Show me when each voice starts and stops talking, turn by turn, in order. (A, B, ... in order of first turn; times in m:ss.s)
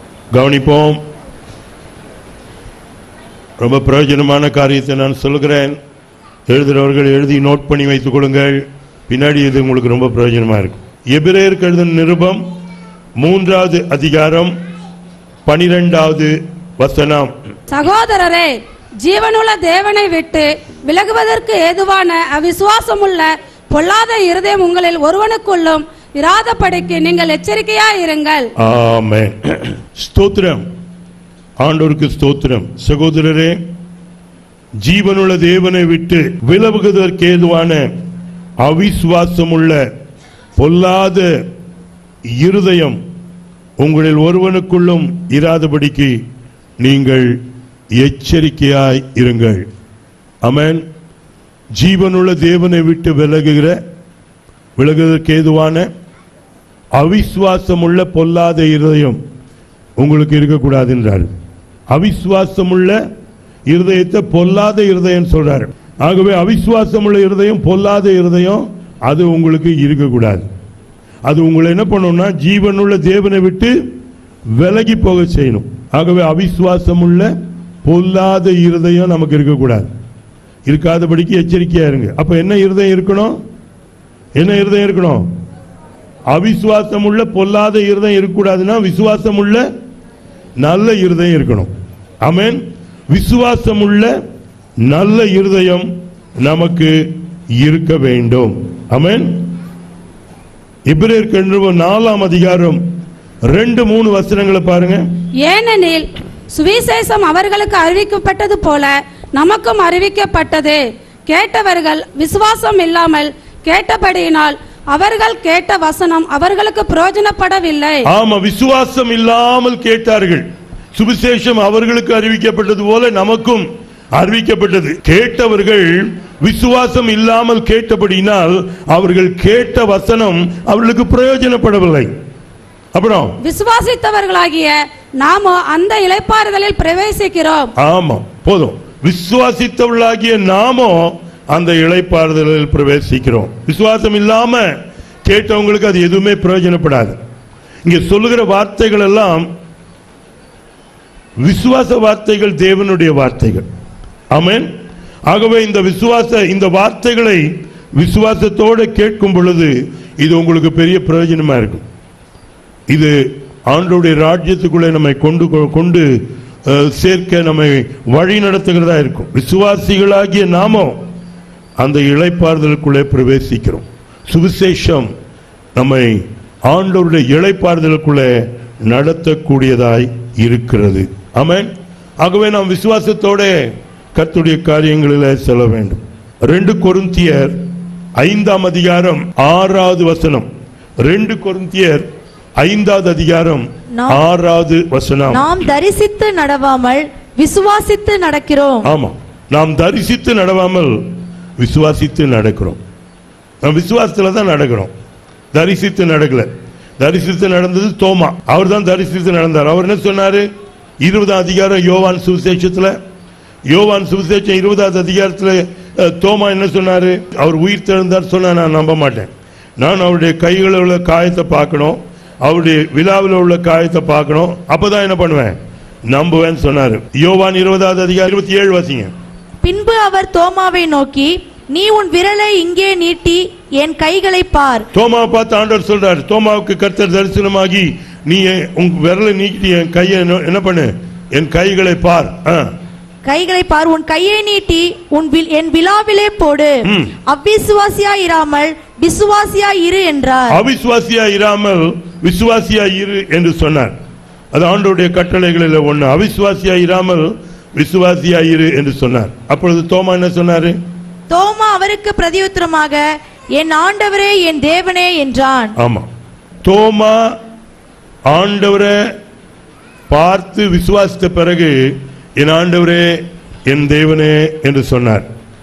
0:00.3-0:01.0 A
0:03.6-0:05.8 A
0:06.5-0:12.4 A
0:13.2-0:14.5 A
0:15.4-0:17.3 A
0:17.7-0:28.5 B
0:28.6-0:30.7 A
0:31.6-0:33.6 A
0:34.8-0:37.9 A
0:38.6-0:39.8 A
0:40.6-0:41.3 A
0:42.4-0:43.0 A
0:43.8-0:46.2 A
0:46.8-0:47.4 A
0:47.9-0:49.6 A
0:50.4-0:50.8 A
0:51.8-0:53.8 A
0:54.8-0:55.9 A
0:56.9-0:59.2 A
1:00.0-1:01.3 A
1:01.9-1:03.0 A
1:03.7-1:10.5 A
1:11.2-1:13.8 A
1:14.6-1:17.3 A
1:17.8-1:19.9 A
1:20.7-1:23.4 A
1:24.4-1:25.3 A
1:26.3-1:29.6 A
1:30.6-1:31.7 A
1:32.2-1:34.1 A
1:34.8-1:35.9 A
1:36.4-1:37.0 A
1:37.6-1:39.4 A
1:40.9-1:42.8 A
1:43.5-1:45.0 A
1:45.4-1:58.1 B
1:58.0-2:12.1 A
2:12.9-2:13.4 A
2:13.4-2:17.7 B
2:17.8-2:27.2 A
2:27.8-2:29.5 A
2:31.4-2:33.7 A
2:34.3-2:34.7 A
2:35.3-2:37.4 A
2:38.0-2:41.8 A
2:42.9-2:43.1 A
2:43.7-2:46.1 A
2:46.6-2:51.0 A
2:51.8-2:55.1 A
2:55.7-3:03.6 A
3:04.1-3:07.6 A
3:08.2-3:10.5 A
3:11.0-3:12.1 A
3:12.6-3:15.5 A
3:15.3-3:18.9 C
3:18.8-3:22.8 A
3:23.6-3:24.9 A
3:25.5-3:30.5 A
3:31.0-3:32.9 A
3:33.7-3:45.6 A
3:46.1-3:49.1 A
3:49.6-3:54.8 C
3:54.9-4:02.7 A
4:03.2-4:10.6 C
4:06.8-4:07.1 A
4:10.5-4:14.0 A
4:14.5-4:20.8 A
4:21.3-4:23.0 C
4:23.6-4:25.7 C
4:25.8-4:26.1 A
4:26.6-4:27.4 A
4:28.3-4:29.0 A
4:30.1-4:35.3 A